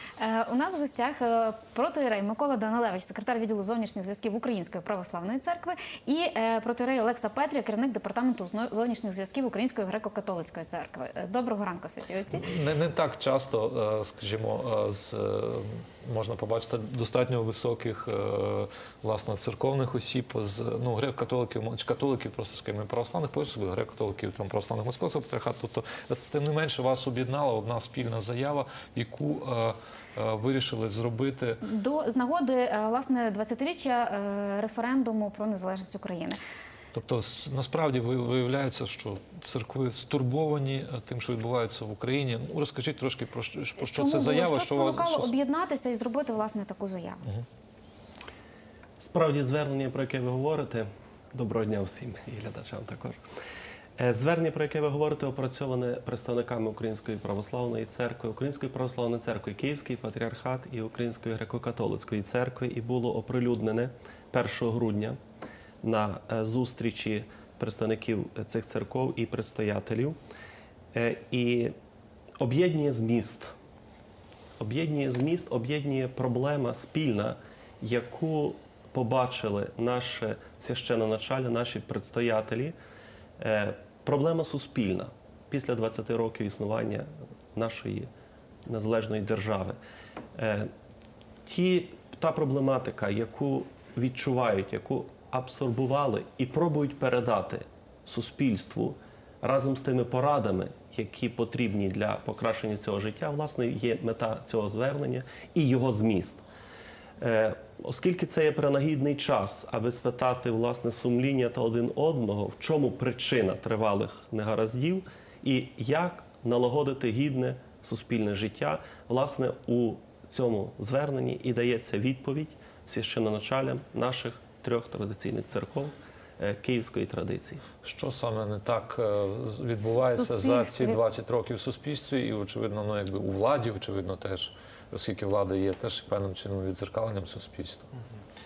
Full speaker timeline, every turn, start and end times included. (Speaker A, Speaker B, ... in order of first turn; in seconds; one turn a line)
Speaker A: 0.2-12.5
Speaker B: 12.4-31.7
Speaker A: 31.6-36.4
Speaker B: 36.9-45.3
Speaker A: 43.8-47.2
Speaker C: 49.0-53.2
Speaker C: 54.0-65.2
Speaker C: 65.8-70.2
Speaker C: 70.9-71.7
Speaker C: 72.4-73.5
Speaker C: 74.6-82.7
Speaker C: 83.4-88.1
Speaker C: 88.7-89.8
Speaker C: 90.4-90.7
Speaker C: 91.5-106.4
Speaker C: 107.2-127.6
Speaker B: 127.8-137.9
Speaker A: 129.9-131.0